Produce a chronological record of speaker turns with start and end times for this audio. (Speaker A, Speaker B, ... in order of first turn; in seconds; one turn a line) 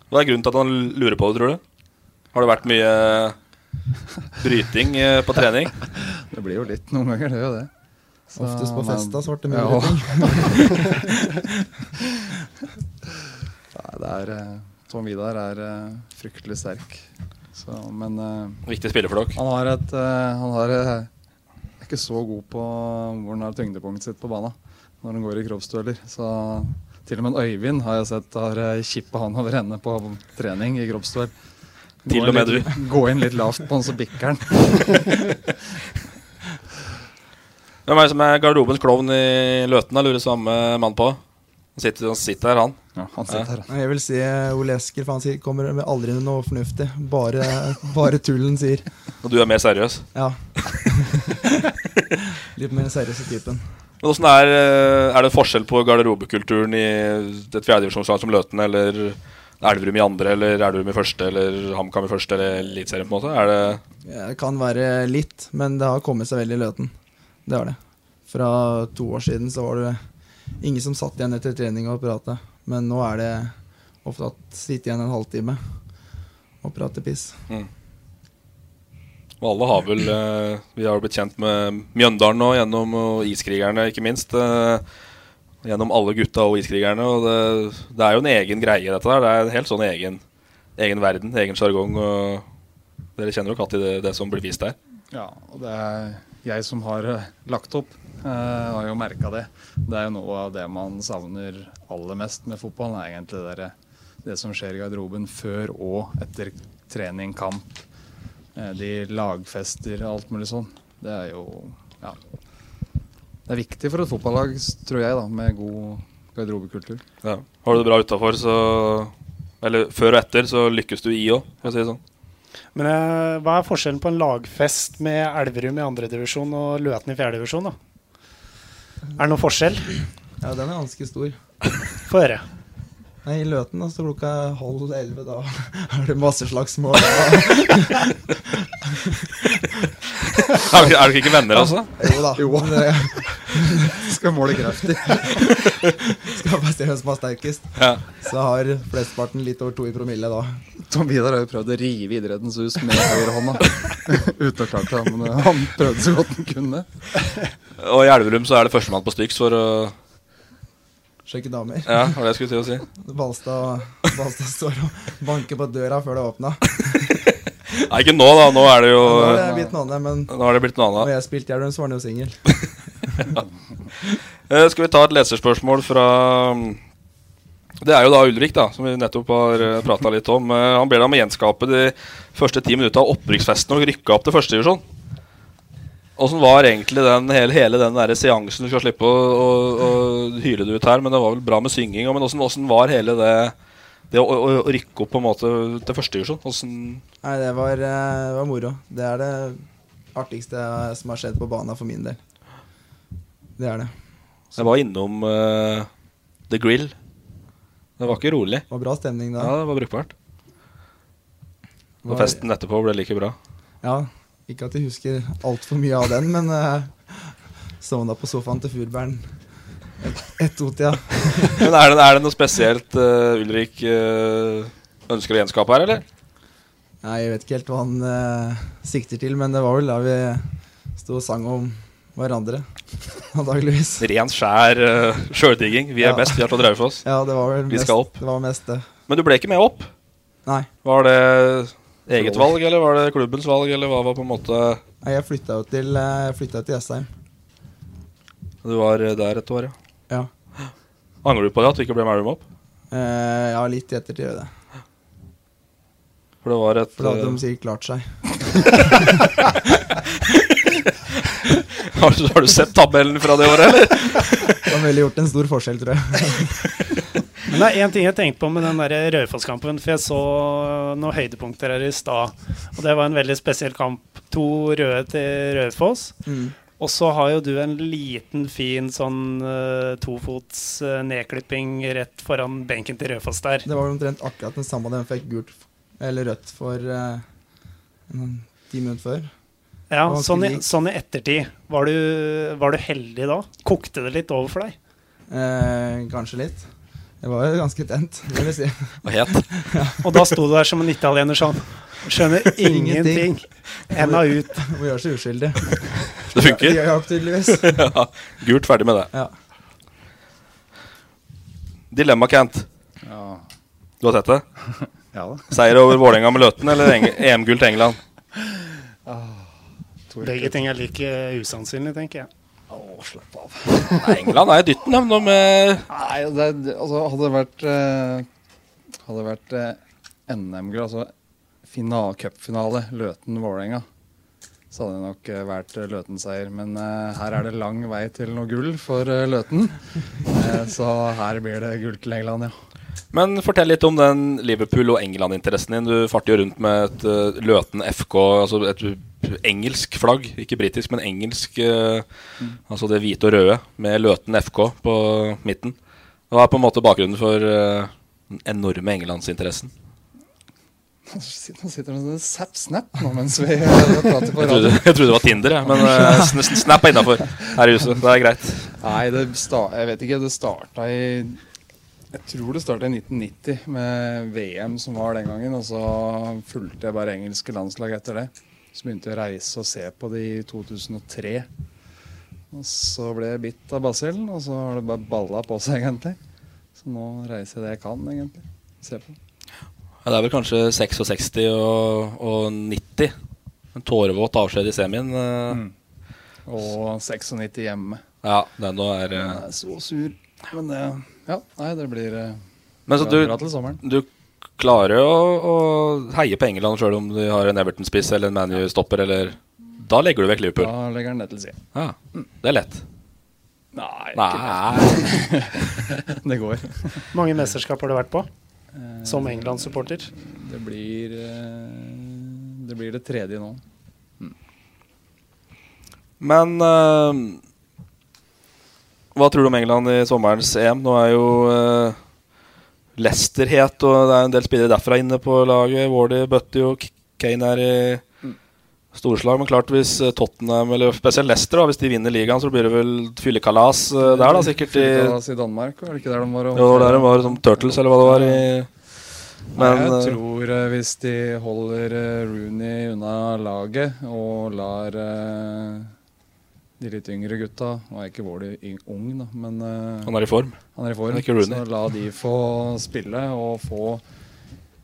Speaker A: 0.1-1.6
Speaker A: 2.3-3.4
Speaker A: 4.4-5.8
Speaker B: 6.0-7.7
Speaker B: 8.3-10.9
Speaker C: 8.4-11.1
Speaker B: 12.0-12.3
Speaker B: 13.7-18.6
Speaker A: 18.7-19.4
Speaker B: 19.4-21.1
Speaker B: 21.8-31.3
Speaker B: 32.0-35.3
Speaker A: 32.1-32.8
Speaker A: 37.9-41.2
Speaker A: 41.8-42.8
Speaker B: 43.0-43.7
Speaker C: 43.7-48.9
Speaker A: 49.2-50.1
Speaker C: 50.1-51.8
Speaker C: 52.4-53.6
Speaker A: 54.0-63.8
Speaker C: 64.0-66.9
Speaker C: 67.5-67.8
Speaker C: 68.3-70.0
Speaker C: 70.6-75.6
Speaker C: 76.6-77.4
Speaker A: 79.4-84.8
Speaker A: 85.6-90.2
Speaker A: 90.8-92.5
Speaker A: 93.2-94.8
Speaker B: 95.1-107.8
Speaker B: 108.5-112.2
Speaker B: 113.5-117.0
Speaker A: 117.2-122.0
Speaker D: 122.8-127.8
Speaker D: 129.2-129.9
Speaker C: 130.4-131.4
Speaker D: 132.1-132.4
Speaker C: 133.2-139.6
Speaker A: 140.5-141.9
Speaker C: 141.5-144.1
Speaker B: 142.3-143.1
Speaker B: 143.9-145.3
Speaker C: 146.2-150.6
Speaker A: 147.8-148.0
Speaker B: 150.8-156.9
Speaker A: 157.8-159.9
Speaker C: 161.3-162.1
Speaker A: 161.9-162.9
Speaker C: 163.0-167.2
Speaker A: 167.7-169.4
Speaker C: 169.0-170.3
Speaker B: 169.3-169.7
Speaker A: 170.3-171.1
Speaker C: 171.0-172.4
Speaker A: 174.5-176.8
Speaker A: 177.8-184.8
Speaker A: 186.2-193.5
Speaker A: 194.1-197.0
Speaker C: 197.2-199.6
Speaker C: 200.1-202.2
Speaker C: 203.6-203.9
Speaker A: 204.6-205.9
Speaker A: 206.5-206.9
Speaker A: 208.0-208.7
Speaker C: 208.7-209.5
Speaker A: 209.4-210.1
Speaker C: 212.0-212.4
Speaker A: 212.1-213.4
Speaker C: 213.8-219.3
Speaker C: 220.0-221.7
Speaker A: 221.6-226.0
Speaker C: 227.0-232.7
Speaker C: 233.3-234.1
Speaker A: 234.0-237.1
Speaker C: 236.0-236.4
Speaker C: 237.0-238.9
Speaker A: 237.7-238.2
Speaker A: 239.1-239.9
Speaker A: 240.8-244.8
Speaker C: 242.2-242.5
Speaker C: 245.0-247.1
Speaker A: 248.6-249.7
Speaker A: 251.2-252.4
Speaker C: 252.9-254.5
Speaker A: 256.4-257.4
Speaker C: 257.0-259.1
Speaker A: 261.8-264.6
Speaker C: 264.6-266.7
Speaker D: 267.5-276.1
Speaker C: 276.2-276.6
Speaker D: 276.8-283.7
Speaker C: 283.6-287.2
Speaker C: 288.1-289.3
Speaker D: 289.9-294.8
Speaker C: 290.1-290.6
Speaker C: 295.3-296.6
Speaker C: 297.2-299.0
Speaker A: 299.0-299.5
Speaker C: 299.6-300.0
Speaker D: 300.0-304.6
Speaker C: 302.5-303.3
Speaker C: 303.9-307.8
Speaker A: 306.3-306.9
Speaker A: 307.5-309.1
Speaker A: 311.9-312.7
Speaker B: 313.0-313.4
Speaker A: 314.0-314.4
Speaker B: 315.1-315.5
Speaker A: 315.5-318.0
Speaker B: 318.4-319.5
Speaker B: 320.1-320.6
Speaker D: 320.2-322.3
Speaker B: 322.7-324.3
Speaker A: 323.9-325.9
Speaker B: 325.9-328.3
Speaker B: 329.1-331.1
Speaker B: 331.6-333.9
Speaker B: 334.7-342.6
Speaker A: 343.1-352.1
Speaker A: 352.7-355.8
Speaker A: 356.3-359.7
Speaker B: 361.1-365.0
Speaker A: 364.4-368.8
Speaker B: 365.7-366.6
Speaker B: 368.8-371.4
Speaker B: 372.1-381.5
Speaker B: 382.5-386.2
Speaker B: 386.8-389.2
Speaker A: 390.1-393.1
Speaker A: 393.8-395.6
Speaker B: 396.5-398.0
Speaker A: 398.2-399.4
Speaker B: 399.2-403.8
Speaker A: 402.9-404.1
Speaker A: 404.6-410.7
Speaker B: 410.6-411.6
Speaker A: 411.8-412.8
Speaker B: 413.7-417.1
Speaker A: 414.1-415.2
Speaker D: 417.1-418.3
Speaker B: 418.7-423.6
Speaker D: 419.1-420.1
Speaker A: 426.2-427.4
Speaker A: 429.1-432.0
Speaker A: 433.0-438.0
Speaker A: 438.9-445.2
Speaker B: 444.0-448.5
Speaker A: 446.5-448.7
Speaker A: 449.6-450.2
Speaker B: 449.6-455.9
Speaker B: 456.8-460.1
Speaker A: 460.1-460.6
Speaker B: 460.8-464.0
Speaker A: 461.1-461.6